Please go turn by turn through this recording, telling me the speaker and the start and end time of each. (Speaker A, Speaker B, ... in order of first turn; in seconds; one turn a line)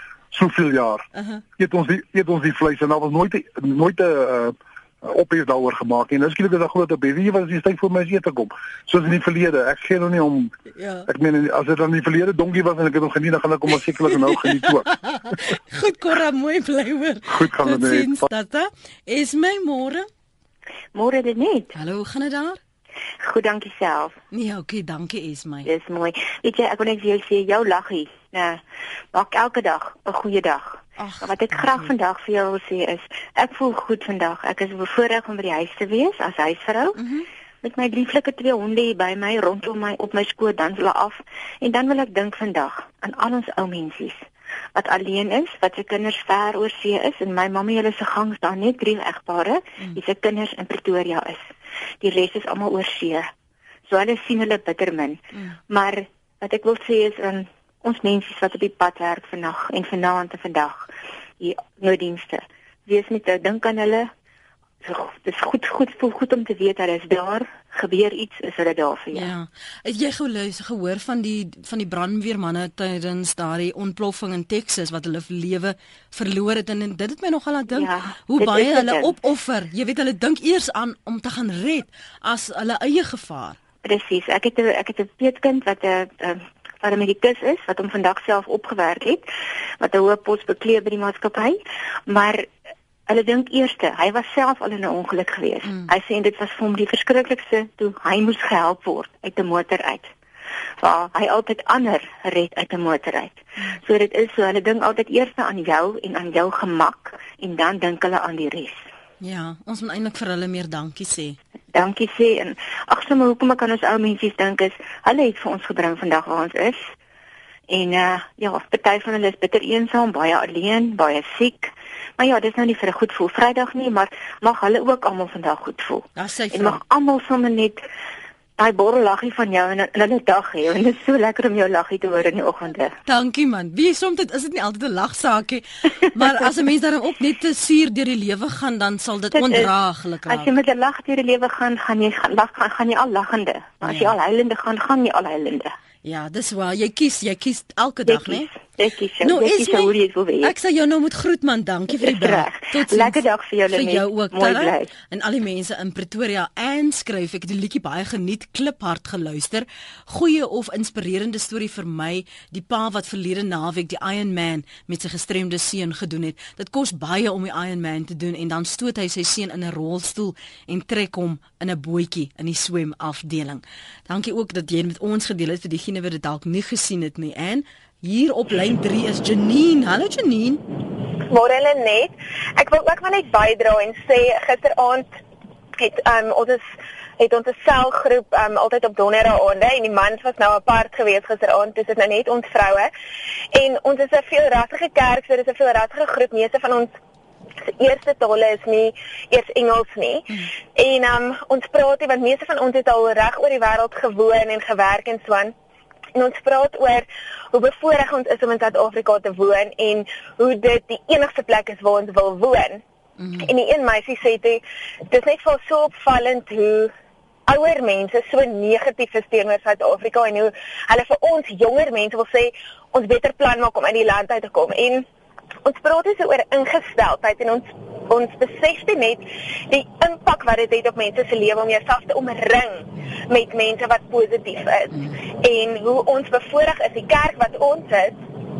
Speaker A: 0.3-1.1
Speaker B: 1.1-1.4
Speaker A: 1.6-10.5
Speaker B: 10.8-11.1
Speaker A: 11.1-14.9
Speaker B: 13.9-20.1
Speaker A: 17.3-18.3
Speaker C: 20.9-21.7
Speaker B: 21.7-22.6
Speaker C: 23.2-24.2
Speaker B: 24.3-25.7
Speaker C: 25.6-28.6
Speaker C: 29.1-37.0
Speaker B: 31.0-31.9
Speaker B: 37.0-37.2
Speaker C: 37.6-51.5
Speaker C: 52.0-53.3
Speaker C: 53.9-64.1
Speaker C: 64.8-69.3
Speaker B: 69.1-83.6
Speaker C: 77.7-79.1
Speaker C: 83.8-89.2
Speaker C: 89.8-92.5
Speaker C: 93.1-100.1
Speaker C: 100.8-108.9
Speaker B: 109.2-111.4
Speaker C: 111.7-116.9
Speaker C: 117.7-127.8
Speaker B: 126.2-126.8
Speaker C: 128.6-132.9
Speaker B: 133.1-140.5
Speaker C: 139.3-139.7
Speaker C: 140.3-145.7
Speaker B: 143.8-144.1
Speaker B: 146.0-148.5
Speaker C: 148.1-150.5
Speaker B: 149.2-180.6
Speaker C: 152.0-154.9
Speaker D: 181.2-185.1
Speaker D: 185.8-186.7
Speaker D: 187.2-192.9
Speaker D: 193.5-196.9
Speaker D: 197.6-205.5
Speaker D: 206.2-212.8
Speaker B: 213.2-213.5
Speaker D: 213.4-216.9
Speaker D: 217.5-225.1
Speaker D: 225.6-238.2